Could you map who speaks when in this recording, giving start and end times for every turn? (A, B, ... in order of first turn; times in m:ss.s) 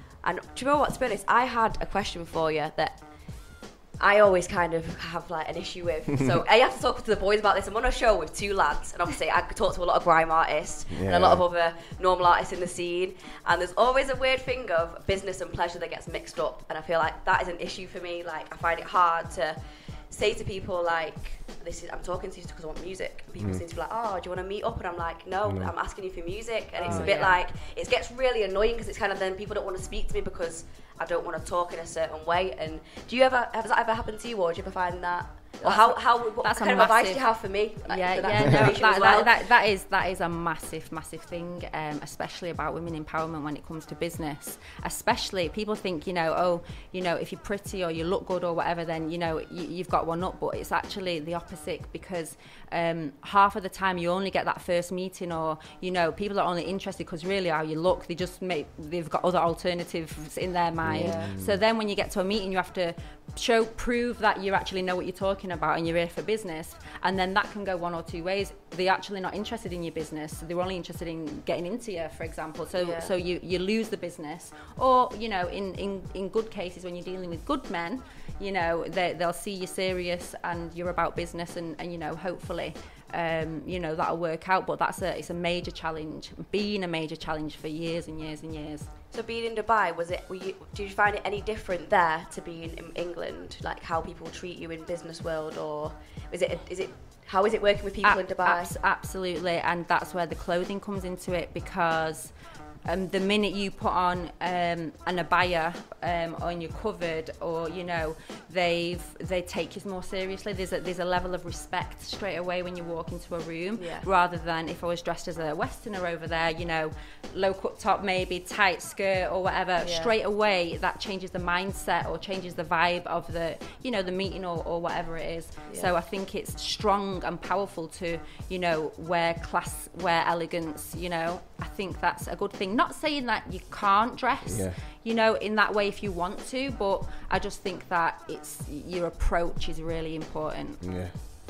0:00.2-0:39.4 A
0:10.9-0:11.4 B
0:25.4-0:25.7 B
0:26.8-0:27.4 C
0:26.9-0:27.1 B
0:35.6-1:28.9 C
1:00.8-1:01.6 B
1:01.0-1:01.3 A
1:12.7-1:13.1 A
1:29.1-1:38.8 A
1:38.0-1:42.3 C
1:42.8-2:20.8 C
1:53.8-1:54.1 A
1:59.8-2:00.1 A
2:05.7-2:05.9 A
2:14.4-2:14.8 B
2:20.8-2:21.1 B